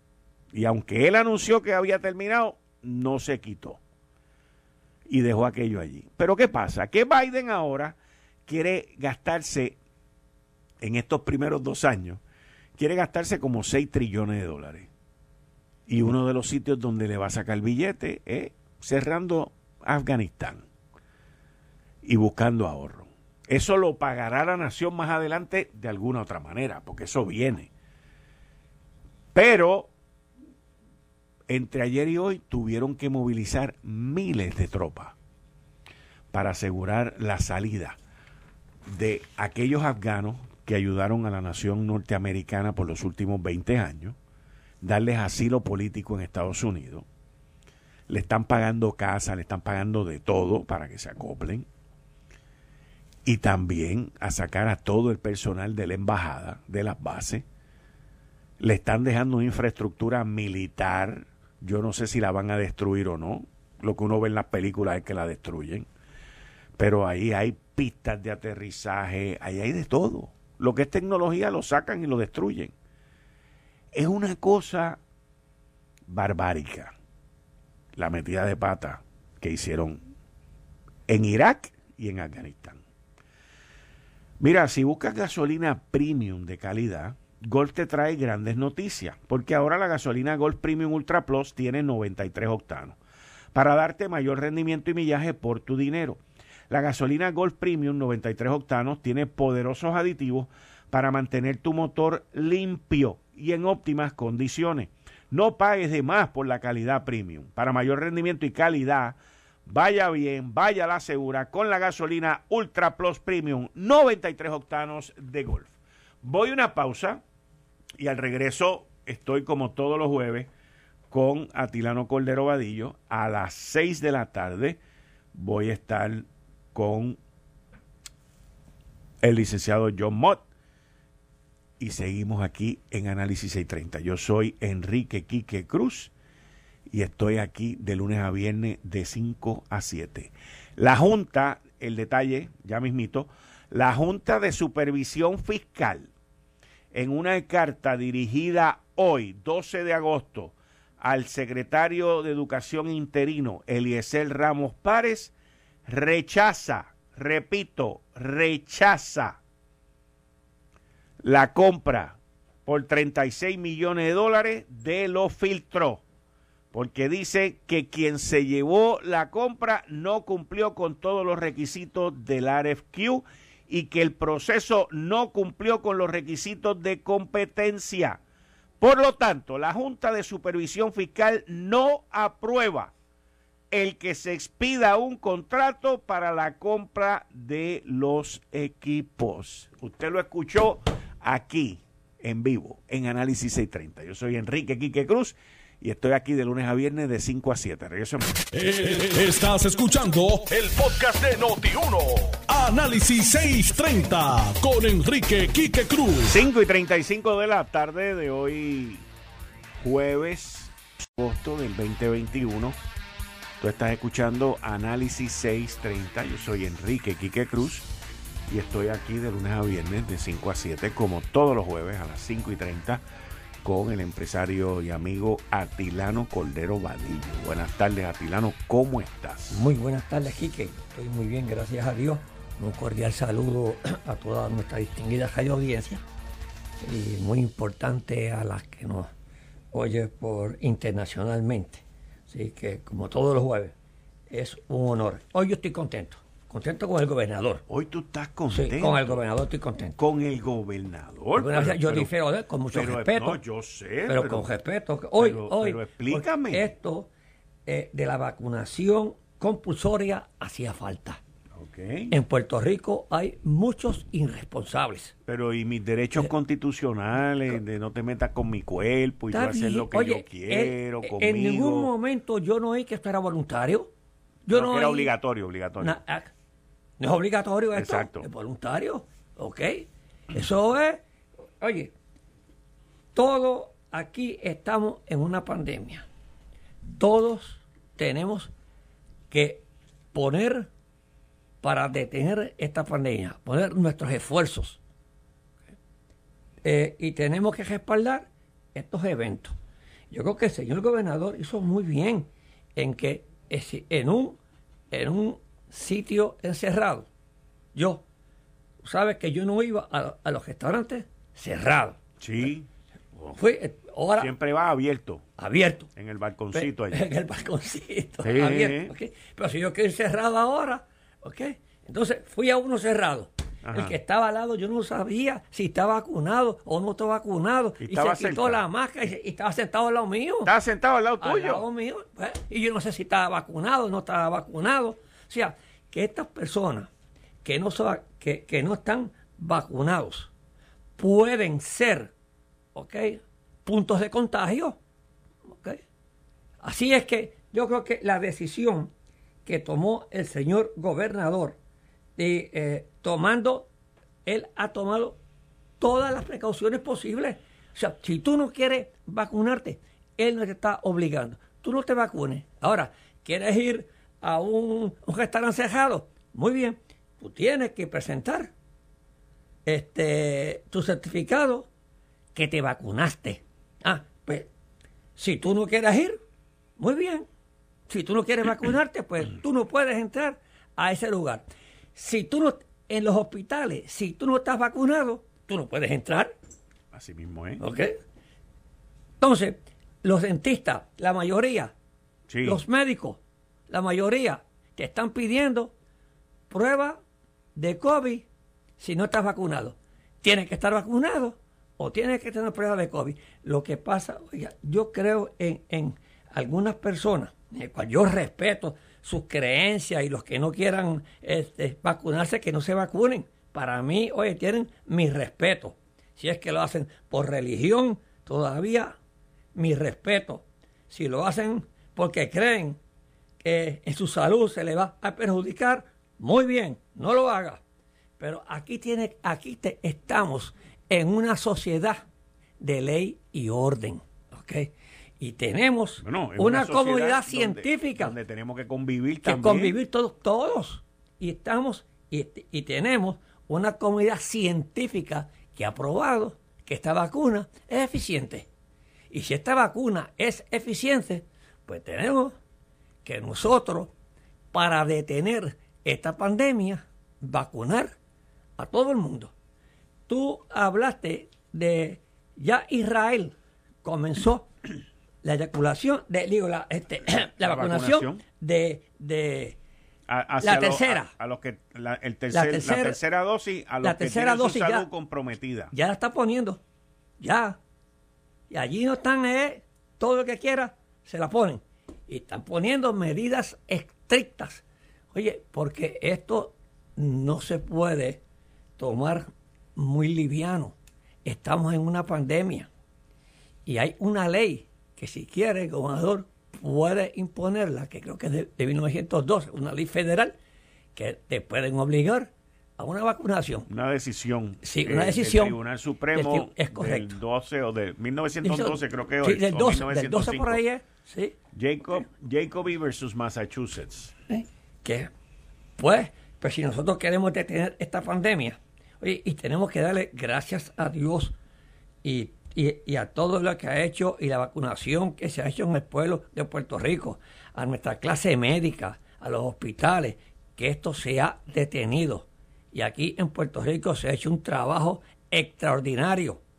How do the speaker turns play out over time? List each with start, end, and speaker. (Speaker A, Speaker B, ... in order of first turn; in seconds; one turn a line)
Speaker A: 0.5-3.8
Speaker A: 5.1-9.8
Speaker A: 10.8-12.2
Speaker A: 12.8-14.9
Speaker A: 15.9-20.6
Speaker A: 22.0-27.7
Speaker A: 29.3-29.9
Speaker A: 31.5-35.1
Speaker A: 36.3-38.0
Speaker A: 38.9-44.2
Speaker A: 44.8-47.0
Speaker A: 48.1-51.6
Speaker A: 53.2-57.4
Speaker A: 58.6-65.9
Speaker A: 66.8-72.7
Speaker A: 73.9-75.0
Speaker A: 76.1-76.9
Speaker A: 78.0-80.0
Speaker A: 81.1-82.8
Speaker A: 84.4-93.0
Speaker A: 93.5-117.2
Speaker A: 118.0-120.5
Speaker A: 121.1-124.8
Speaker A: 125.3-127.2
Speaker A: 129.2-130.4
Speaker A: 131.8-136.1
Speaker A: 136.9-146.1
Speaker A: 146.9-155.3
Speaker A: 155.8-159.4
Speaker A: 161.2-166.0
Speaker A: 166.7-178.2
Speaker A: 178.8-182.9
Speaker A: 183.7-198.4
Speaker B: 198.5-206.4
Speaker A: 206.2-209.0
Speaker A: 209.8-212.8
Speaker A: 213.6-217.8
Speaker A: 218.5-223.0
Speaker A: 223.6-229.6
Speaker C: 229.5-236.0
Speaker C: 236.8-239.1
Speaker C: 239.7-243.7
Speaker C: 244.3-247.6
Speaker A: 247.7-249.2
Speaker C: 248.5-249.9
Speaker A: 250.0-252.1
Speaker C: 251.3-253.4
Speaker A: 252.7-254.4
Speaker C: 254.1-257.1
Speaker A: 255.2-256.7
Speaker C: 257.6-261.2
Speaker A: 261.6-262.1
Speaker C: 262.1-265.1
Speaker A: 265.2-271.9
Speaker C: 269.3-273.9
Speaker C: 274.4-275.1
Speaker A: 274.5-276.0
Speaker C: 275.8-276.3
Speaker C: 277.0-281.0
Speaker A: 277.7-278.3
Speaker C: 281.6-281.9
Speaker C: 283.1-286.1
Speaker C: 286.9-288.5
Speaker C: 289.3-290.7
Speaker C: 291.6-294.8
Speaker C: 296.6-299.5
Speaker C: 300.1-304.4
Speaker C: 304.9-307.1
Speaker C: 307.7-308.0
Speaker C: 308.8-312.0
Speaker A: 312.2-312.7
Speaker C: 313.3-314.3
Speaker A: 314.2-315.2
Speaker C: 315.4-315.9
Speaker A: 315.9-317.0
Speaker C: 316.5-330.5
Speaker A: 318.2-318.9
Speaker A: 323.6-323.9
Speaker A: 327.8-328.6
Speaker A: 330.4-331.6
Speaker C: 331.2-336.9
Speaker C: 337.4-340.3
Speaker C: 341.0-342.1
Speaker C: 342.7-344.8
Speaker C: 345.5-345.8
Speaker C: 346.6-348.9
Speaker C: 349.4-351.6
Speaker C: 352.2-353.7
Speaker C: 354.2-355.2
Speaker C: 355.8-368.5
Speaker C: 369.6-371.7
Speaker C: 372.3-374.5
Speaker C: 375.2-376.2
Speaker C: 376.8-377.2
Speaker C: 377.9-381.4
Speaker C: 381.9-386.3
Speaker A: 386.9-387.6
Speaker C: 387.6-388.0
Speaker C: 389.2-391.7
Speaker A: 392.3-392.6
Speaker C: 392.4-395.7
Speaker C: 396.5-397.0
Speaker C: 397.5-398.2
Speaker C: 398.8-418.9
Speaker C: 419.5-422.8
Speaker C: 423.4-427.6
Speaker C: 428.2-432.0
Speaker C: 432.6-438.1
Speaker A: 436.0-439.7
Speaker C: 439.2-448.5
Speaker C: 449.1-452.4
Speaker C: 453.0-453.9
Speaker C: 454.5-457.9
Speaker C: 458.6-459.3
Speaker C: 460.1-464.5
Speaker C: 465.2-469.6
Speaker A: 467.3-468.2
Speaker A: 470.1-475.7
Speaker C: 470.4-471.1
Speaker C: 472.3-473.0
Speaker C: 473.8-474.9
Speaker C: 475.7-476.6
Speaker C: 477.2-477.6
Speaker C: 478.5-484.6
Speaker C: 485.1-488.2
Speaker C: 488.8-492.7
Speaker C: 493.6-500.3
Speaker C: 500.9-503.7
Speaker A: 503.7-510.6
Speaker C: 504.6-505.6
Speaker C: 506.1-507.1
Speaker C: 508.4-511.4
Speaker A: 511.5-514.1
Speaker C: 514.3-515.1
Speaker C: 515.8-521.3
Speaker C: 522.0-536.4